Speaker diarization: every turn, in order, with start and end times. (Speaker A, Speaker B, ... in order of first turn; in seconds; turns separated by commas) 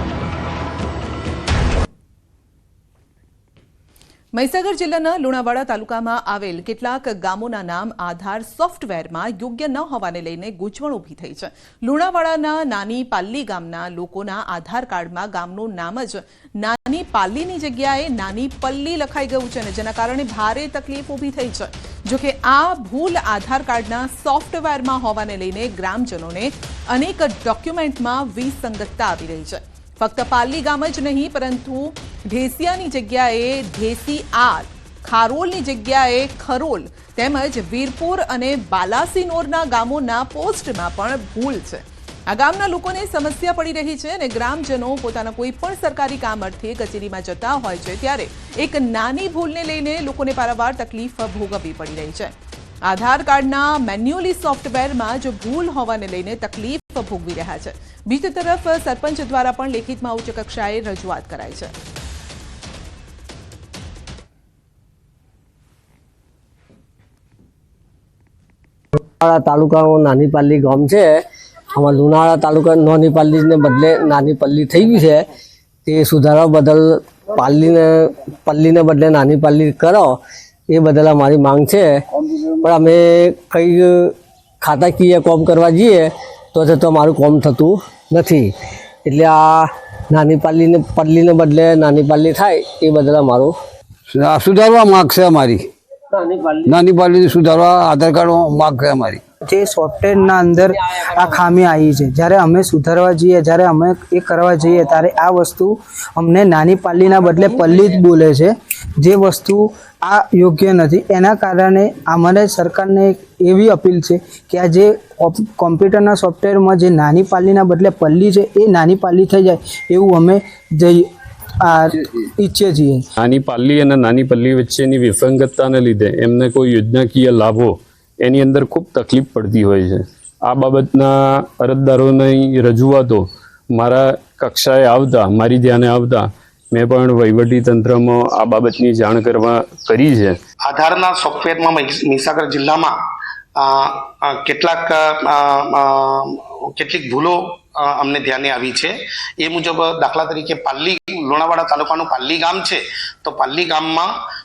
Speaker A: 4.3-52.3, Speaker A: 52.9-61.7, Speaker B: 69.2-75.3, Speaker B: 75.8-82.0, Speaker B: 82.6-88.5, Speaker B: 89.0-93.5, Speaker C: 94.1-95.6, Speaker B: 96.1-96.8, Speaker C: 96.6-99.2, Speaker D: 99.5-121.0, Speaker B: 107.3-107.6, Speaker D: 121.6-123.0, Speaker E: 123.2-140.4, Speaker F: 140.6-143.0, Speaker F: 143.6-154.1